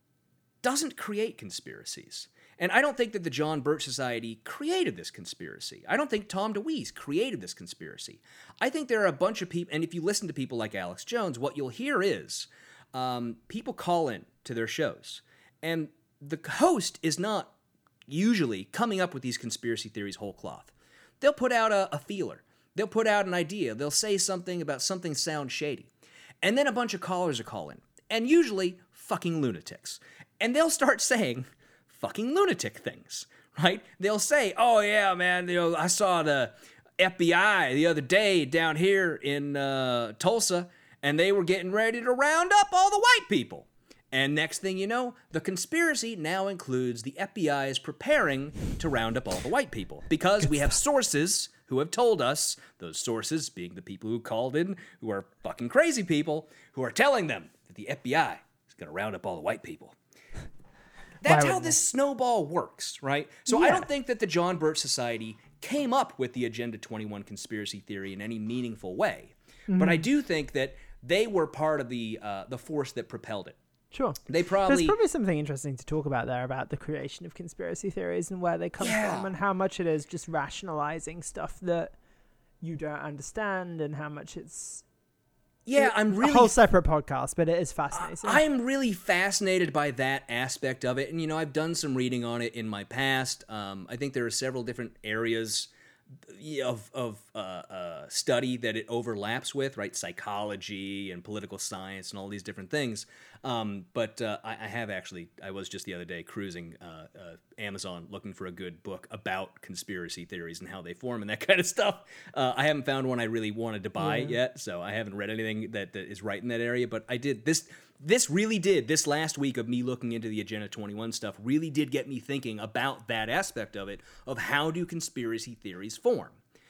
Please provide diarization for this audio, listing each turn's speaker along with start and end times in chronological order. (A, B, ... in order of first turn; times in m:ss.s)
0:00.6-0:17.5 A
0:18.1-0:25.9 A
0:26.4-1:00.0 A
1:01.2-1:13.6 A
1:01.3-1:01.8 B
1:03.5-1:03.8 B
1:09.7-1:10.0 B
1:13.9-1:21.9 B
1:14.2-1:15.0 A
1:18.8-1:19.3 A
1:22.6-1:24.8 B
1:25.6-1:26.6 A
1:25.8-1:28.4 B
1:27.9-1:35.7 A
1:36.3-2:06.4 A
1:54.0-1:54.3 B